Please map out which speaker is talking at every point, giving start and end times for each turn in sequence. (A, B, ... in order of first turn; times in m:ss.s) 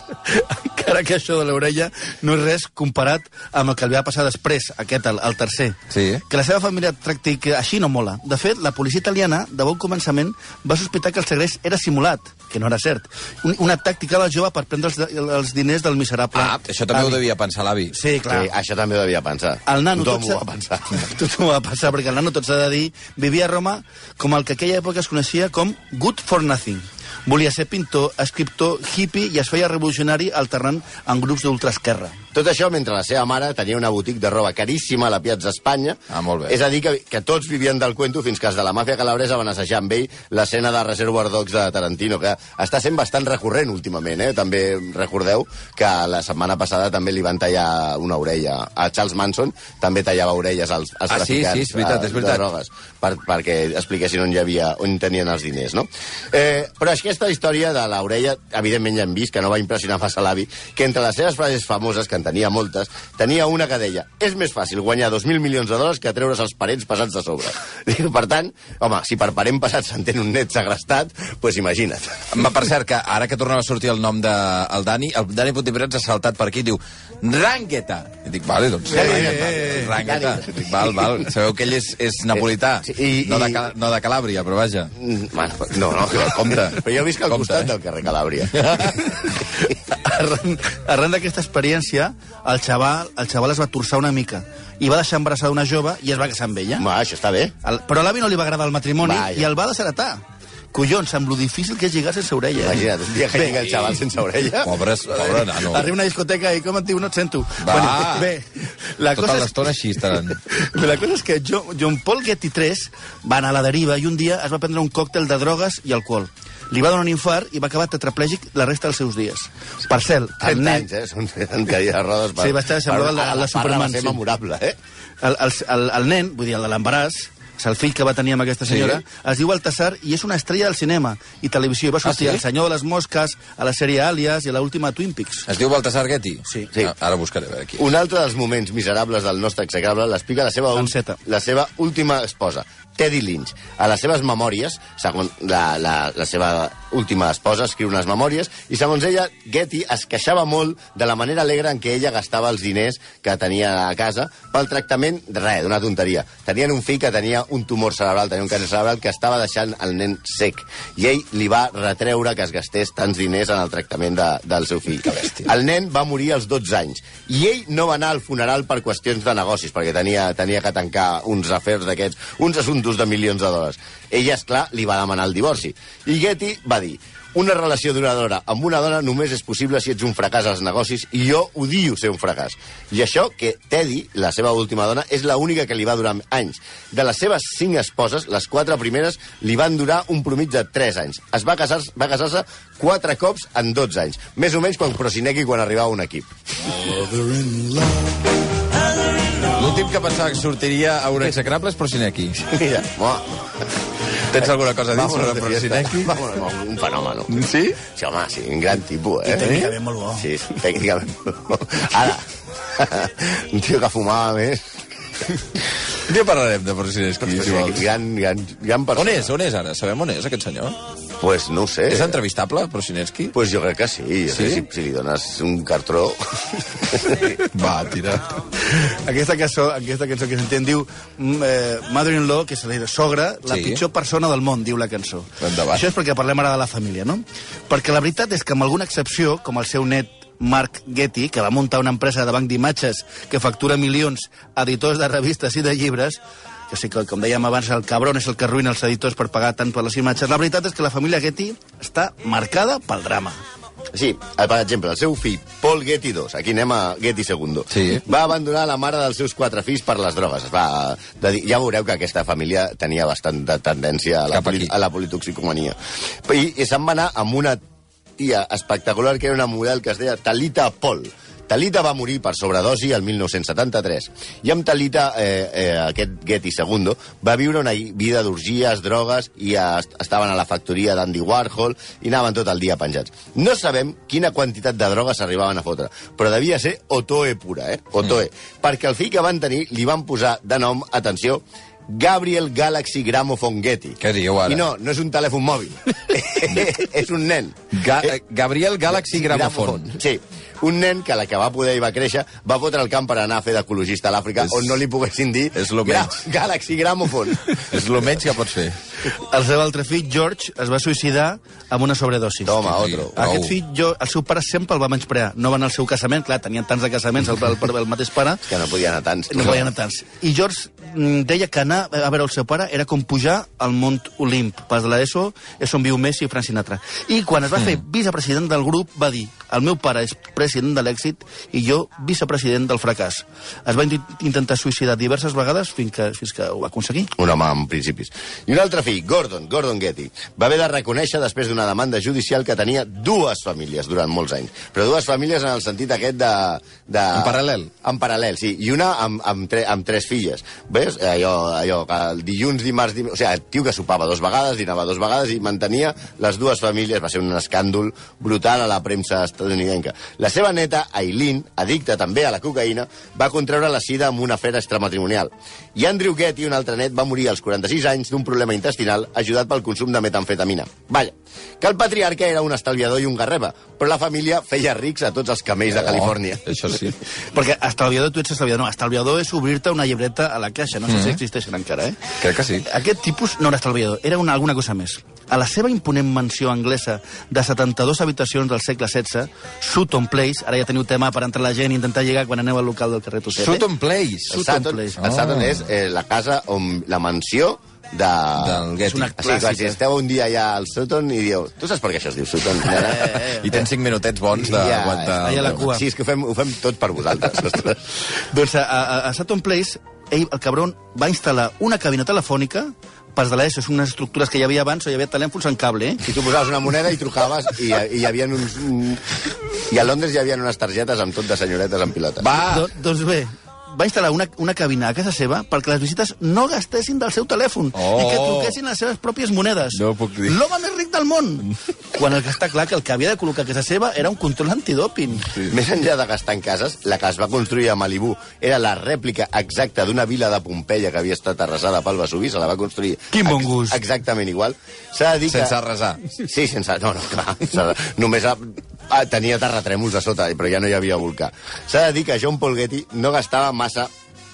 0:00.2-0:17.2 A
0:05.9-0:06.2 B
0:16.3-0:17.9 B
0:17.9-0:18.5 A
0:18.2-0:21.0 C
0:19.6-0:32.2 A
0:32.3-1:12.2 C
0:36.1-0:36.6 B
0:51.1-0:52.4 B
1:12.3-1:24.9 B
1:18.9-1:21.2 C
1:19.0-1:19.9 A
1:22.3-1:23.6 C
1:25.0-1:29.4 C
1:26.4-1:27.7 B
1:29.2-1:36.9 A
1:36.8-1:37.5 C
1:37.6-1:40.2 A
1:39.0-1:39.5 C
1:40.7-1:44.0 A
1:42.6-1:44.7 C
1:44.6-1:45.9 B
1:45.2-1:49.6 A
1:47.6-1:48.3 B
1:49.1-1:50.4 B
1:50.1-2:00.9 A
2:00.4-2:04.8 C
2:02.4-2:04.2 A
2:05.2-2:15.5 A
2:08.6-2:09.0 B
2:12.0-2:12.4 B
2:15.5-2:17.8 B
2:17.8-3:16.3 C
2:20.7-2:21.2 A
2:45.0-2:45.5 B
3:19.5-3:22.5 B
3:22.5-3:23.3 C
3:24.3-3:26.1 B
3:24.9-3:34.6 C
3:27.3-3:27.8 B
3:29.2-3:30.3 A
3:36.1-3:37.8 B
3:37.2-3:39.3 C
3:38.9-3:40.8 B
3:41.2-3:42.2 C
3:41.9-3:43.3 B
3:43.3-3:46.2 C
3:44.3-3:44.6 B
3:46.8-3:47.4 C
3:47.2-3:48.3 B
3:48.7-4:13.4 A
3:53.4-3:53.8 B
3:55.4-3:55.8 B
4:13.9-4:27.6 C
4:17.7-4:18.0 B
4:24.3-4:24.7 B
4:28.2-4:58.2 C
4:54.0-4:54.6 B
4:57.7-4:59.9 B
4:58.9-5:08.0 C
5:04.4-5:04.8 B
5:05.5-5:06.2 B
5:07.6-5:08.8 B
5:09.2-5:12.6 A
5:12.4-5:13.2 C
5:12.6-5:13.5 B
5:13.1-5:18.4 A
5:18.5-5:19.6 C
5:19.3-5:37.1 A
5:37.2-6:16.8 C
5:47.1-5:47.7 B
6:15.7-6:17.0 B
6:17.3-6:22.0 A
6:20.9-6:21.2 B
6:22.2-6:22.6 B
6:22.6-6:33.6 A
6:33.4-6:34.4 B
6:34.3-6:43.7 C
6:34.3-6:35.0 A
6:35.0-6:35.7 B
6:38.4-6:39.1 B
6:38.8-6:39.8 A
6:42.9-6:45.7 B
6:44.4-6:47.8 C
6:45.2-6:45.8 A
6:48.3-6:56.1 A
6:56.0-6:59.0 C
6:59.7-7:02.3 C
7:02.2-7:02.7 B
7:02.3-7:15.3 A
7:07.8-7:08.5 B
7:09.7-7:10.4 B
7:15.5-7:25.6 C
7:23.1-7:23.8 A
7:25.3-7:26.0 B
7:26.1-7:33.9 C